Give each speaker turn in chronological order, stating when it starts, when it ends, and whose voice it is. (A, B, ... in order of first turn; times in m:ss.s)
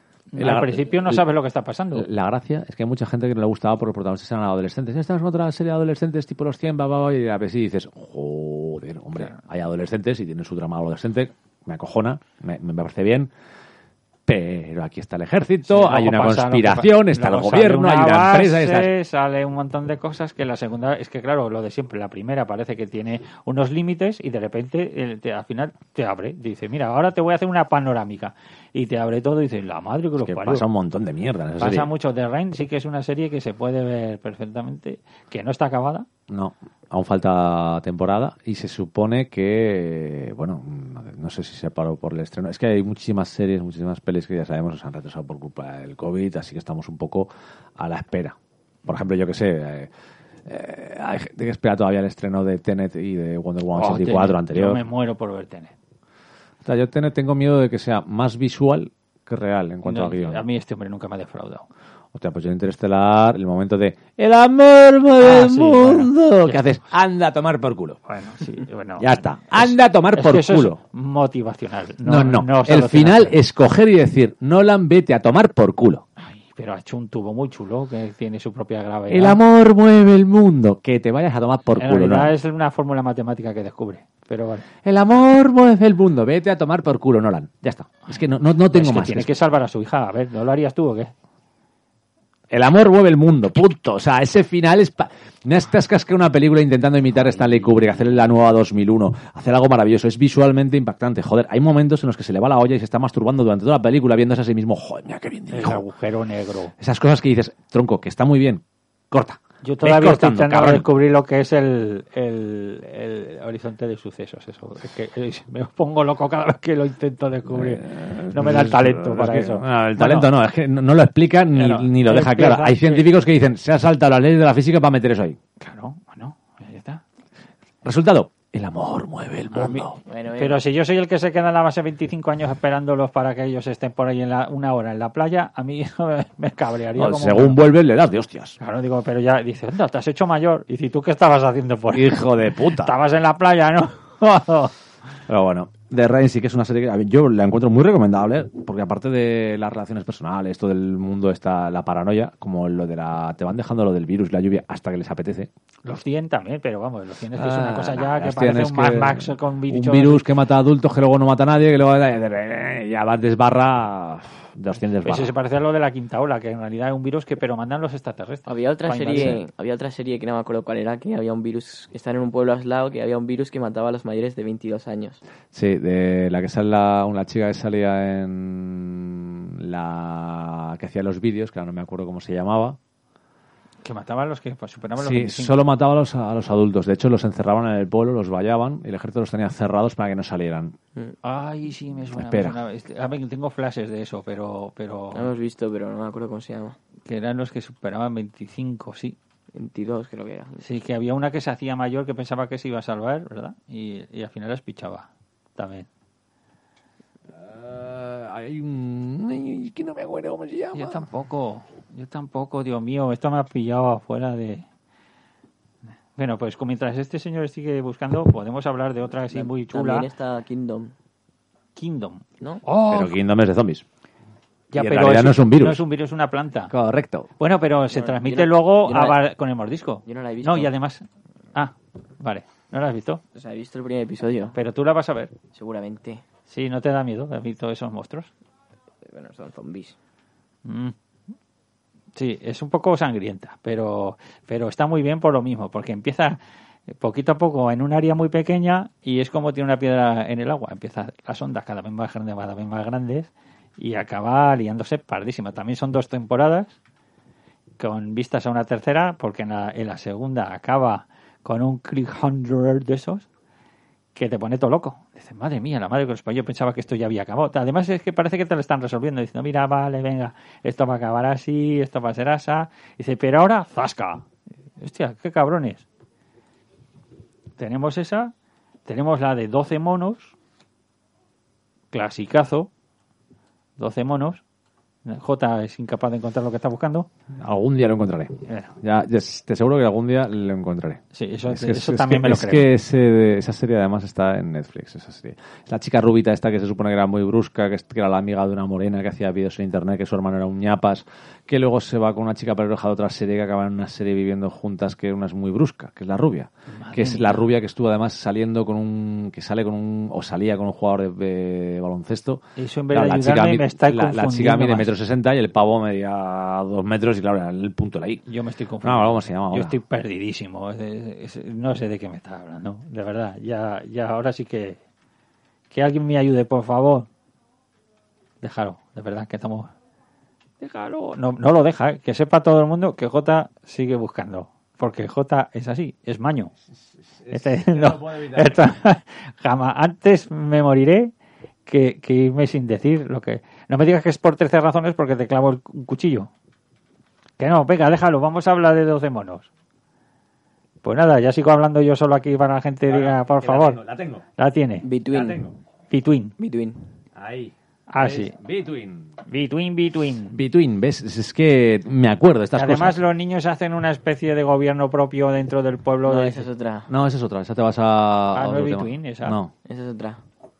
0:00.3-0:02.1 A
0:00.4-0:01.2 B
0:01.9-0:13.3 B
0:14.2-0:18.9 B
0:15.6-0:30.6 A
0:30.2-0:31.9 B
0:31.6-0:36.1 A
0:36.3-0:49.9 B
0:50.4-0:54.8 B
0:53.7-0:55.7 A
0:56.6-1:00.4 B
0:59.8-1:01.7 A
1:02.1-1:08.0 B
1:05.2-1:06.6 A
1:08.1-1:13.4 A
1:09.0-1:10.8 B
1:12.0-1:16.0 B
1:16.2-1:19.4 A
1:19.1-1:22.3 B
1:21.8-1:24.7 A
1:24.8-1:29.3 B
1:28.7-1:31.1 A
1:32.5-1:45.8 B
1:37.1-1:38.2 A
1:45.5-1:46.7 A
1:46.8-1:50.9 B
1:49.6-2:00.3 A
1:57.5-2:05.4 B
2:01.5-2:03.1 A
2:05.6-2:07.0 A
2:07.8-2:10.0 B
2:09.5-2:17.6 A
2:10.1-2:10.6 C
2:17.0-2:18.6 B
2:18.6-2:24.7 A
2:21.9-2:22.9 B
2:25.3-2:35.5 B
2:35.8-2:40.3 A
2:37.3-2:45.3 B
2:45.0-2:49.4 A
2:48.4-2:55.2 C
2:49.1-2:49.4 B
2:55.5-3:02.8 B
3:03.8-3:05.6 A
3:05.0-3:10.8 B
3:11.2-3:15.3 A
3:12.1-3:12.6 B
3:15.1-3:16.8 C
3:17.0-3:19.2 A
3:19.5-3:20.6 C
3:20.6-3:25.9 A
3:27.3-3:31.1 B
3:30.7-3:34.6 A
3:36.2-3:40.1 A
3:39.3-3:40.9 C
3:41.8-3:43.1 A
3:42.9-3:43.8 B
3:44.7-3:46.7 A
3:44.7-3:45.8 B
3:46.7-3:47.3 B
3:47.4-3:51.0 A
3:47.9-3:49.2 C
3:50.0-3:50.7 C
3:51.5-3:53.2 A
3:53.3-3:54.6 C
3:54.5-3:55.3 A
3:55.5-3:56.2 C
3:56.5-3:58.3 A
3:59.0-4:00.0 C
4:00.6-4:00.9 A
4:02.1-4:06.4 A
4:06.9-4:16.8 A
4:17.8-4:23.3 A
4:24.1-4:34.2 A
4:34.8-4:35.8 A
4:37.6-4:38.3 A
4:38.8-4:40.3 A
4:41.9-4:42.7 A
4:43.8-4:44.4 A
4:45.0-4:47.1 A
4:47.3-5:18.2 B
4:48.5-4:48.7 A
4:51.1-4:52.7 A
5:06.7-5:07.5 A
5:12.6-5:14.9 A
5:18.3-5:24.8 A
5:18.8-5:19.8 B
5:25.7-5:27.1 A
5:28.4-5:29.7 A
5:30.6-5:36.5 A
5:37.0-5:38.6 B
5:37.3-5:41.1 A
5:41.6-5:46.3 A
5:47.4-5:49.5 A
5:50.8-5:53.8 A
5:52.8-5:54.2 B
5:54.4-5:54.9 A
5:54.8-5:55.4 C
5:55.1-5:55.5 B
5:55.9-5:56.4 A
5:56.4-5:56.8 C
5:57.1-5:59.1 B
5:57.9-5:58.4 A
5:59.2-6:00.3 A
6:00.3-6:03.0 B
6:02.5-6:06.5 A
6:06.0-6:06.9 C
6:06.9-6:09.5 B
6:08.3-6:09.4 A
6:09.6-6:10.2 C